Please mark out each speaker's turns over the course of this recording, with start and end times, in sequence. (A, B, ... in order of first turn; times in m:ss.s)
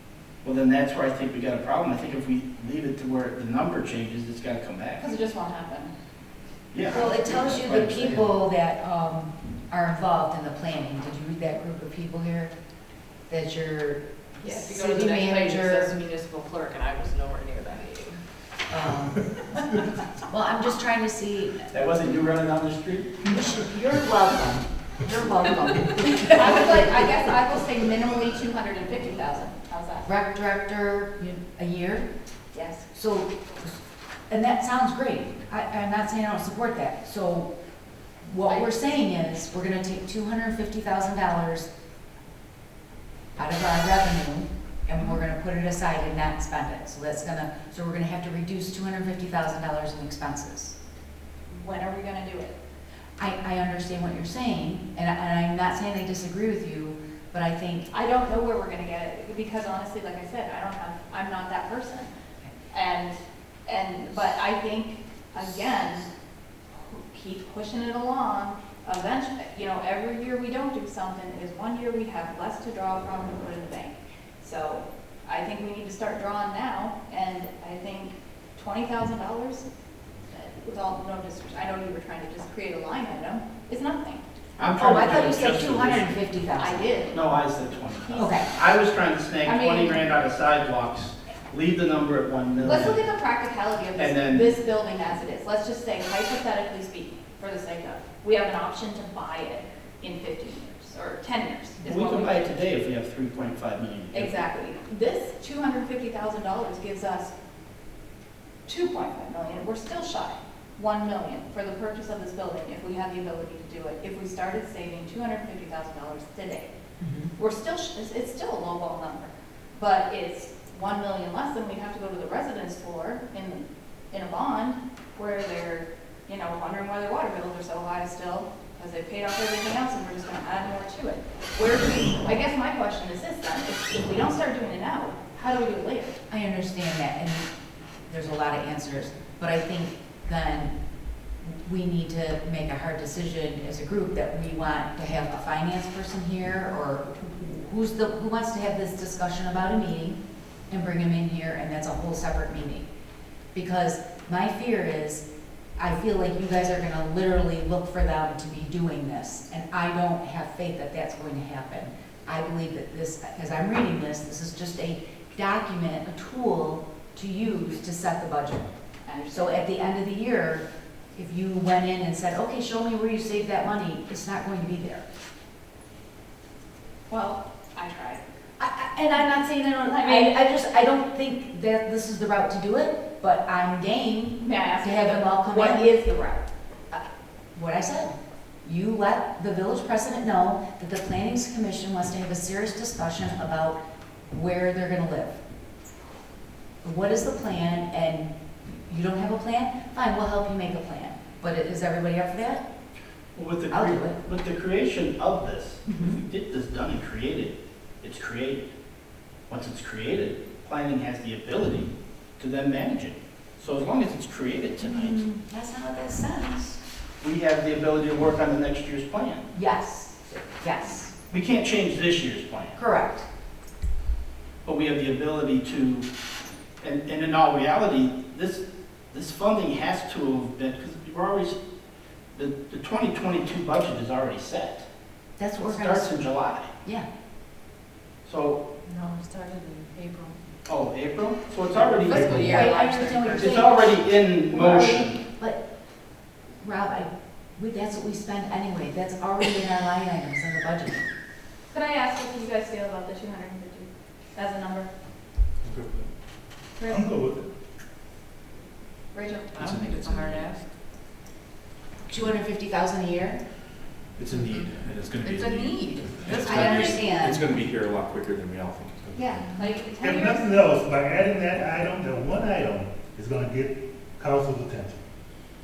0:00.4-0:05.0 A
0:05.0-0:05.9 B
0:06.7-0:08.3 A
0:06.8-0:12.5 C
0:13.3-0:15.9 C
0:14.4-0:18.2 D
0:18.7-0:21.6 C
0:21.7-0:23.2 A
0:23.2-0:26.8 C
0:26.3-0:30.1 B
0:30.0-0:32.1 C
0:32.5-0:32.8 B
0:32.9-0:33.8 C
0:34.3-0:37.5 C
0:38.2-0:41.7 C
0:38.4-0:38.7 B
0:43.4-0:50.8 C
0:51.5-0:52.6 B
0:53.2-0:57.9 C
0:57.9-1:02.1 B
1:02.7-1:06.1 B
1:06.7-1:19.6 B
1:20.3-1:24.2 B
1:24.6-1:26.1 A
1:24.8-1:26.8 C
1:26.6-1:27.4 B
1:27.1-1:33.0 A
1:28.0-1:28.4 B
1:28.2-1:28.5 C
1:29.4-1:30.0 B
1:32.6-1:42.6 B
1:34.0-1:34.5 A
1:41.8-1:44.4 A
1:44.1-1:47.3 B
1:48.6-1:56.7 B
1:57.0-1:57.3 C
1:57.4-2:16.2 B
2:16.3-2:17.5 C
2:18.1-2:20.7 C
2:21.4-2:30.2 C
2:30.7-2:32.9 C
2:33.5-2:35.2 C
2:35.8-2:48.7 C
2:49.0-2:49.6 B
2:49.3-2:55.0 C
2:57.1-2:58.2 B
2:58.6-3:06.1 C
2:59.8-3:00.4 B
3:04.4-3:06.4 B
3:06.9-3:15.4 C
3:16.8-3:22.6 C
3:23.3-3:28.7 A
3:23.7-3:24.2 C
3:25.9-3:26.2 C
3:29.5-3:35.2 A
3:34.8-3:36.8 C
3:37.2-3:39.5 A
3:39.5-3:41.1 C
3:41.3-3:42.8 A
3:42.8-3:43.3 C
3:44.6-3:46.0 A
3:46.8-3:51.6 A
3:52.3-3:54.8 A
3:55.4-3:56.2 C
3:55.6-3:56.7 A
3:58.2-3:58.6 A
3:58.9-4:00.4 D
4:00.7-4:02.4 A
4:01.8-4:03.6 D
4:02.1-4:02.7 E
4:02.4-4:05.6 C
4:03.3-4:05.2 A
4:06.6-4:11.0 C
4:11.7-4:14.9 B
4:15.7-4:16.0 F
4:16.8-4:17.2 B
4:16.9-4:17.5 E
4:19.1-4:19.5 B
4:19.5-4:20.6 D
4:19.6-4:20.5 F
4:22.1-4:23.4 C
4:24.2-4:29.2 F
4:24.4-4:27.0 D
4:26.3-4:27.5 C
4:29.1-4:30.8 B
4:30.0-4:35.0 E